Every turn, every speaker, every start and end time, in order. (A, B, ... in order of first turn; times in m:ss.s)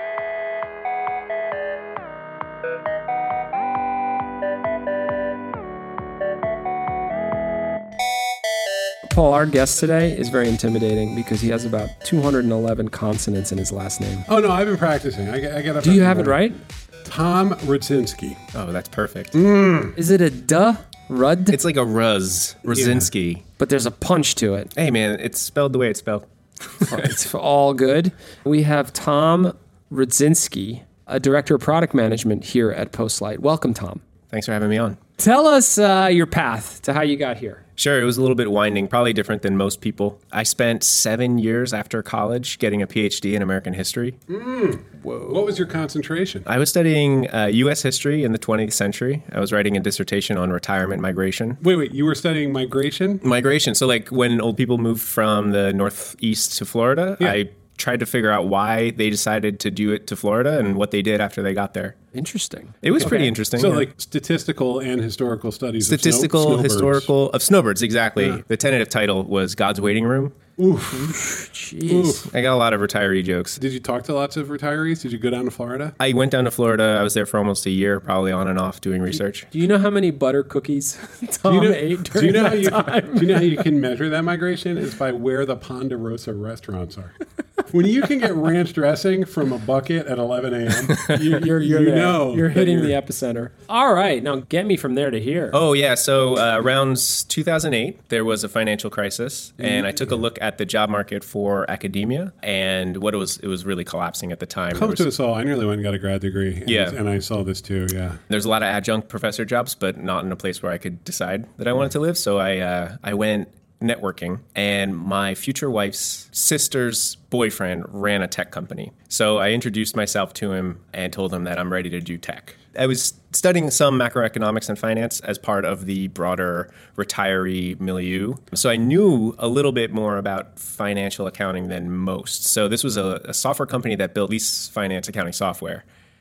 0:09.1-0:14.2 A
0:14.3-0:16.4 B
0:15.8-0:16.6 A
0:17.0-0:18.4 B
0:18.5-0:19.4 C
0:19.3-0:20.0 B
0:20.0-0:21.6 A
0:21.5-0:23.4 C
0:22.6-0:23.0 B
0:23.6-0:24.7 A
0:24.7-0:27.1 C
0:26.9-0:34.0 A
0:34.3-0:35.0 C
0:35.2-0:37.6 A
0:37.8-0:44.2 C
0:44.3-0:46.5 B
0:46.4-0:51.6 C
0:51.6-0:53.2 B
0:53.2-1:02.0 C
1:02.1-1:03.3 A
1:02.8-1:03.9 C
1:03.0-1:07.1 B
1:05.8-1:10.4 C
1:10.6-1:12.3 B
1:10.9-1:12.2 A
1:12.2-1:13.6 C
1:13.6-1:16.0 B
1:16.0-1:19.5 C
1:19.5-1:23.7 A
1:21.4-1:27.1 B
1:27.7-1:32.9 B
1:31.1-1:35.6 A
1:35.5-1:45.1 C
1:39.6-1:40.2 B
1:44.7-1:48.2 B
1:46.6-1:47.0 C
1:48.3-2:15.8 C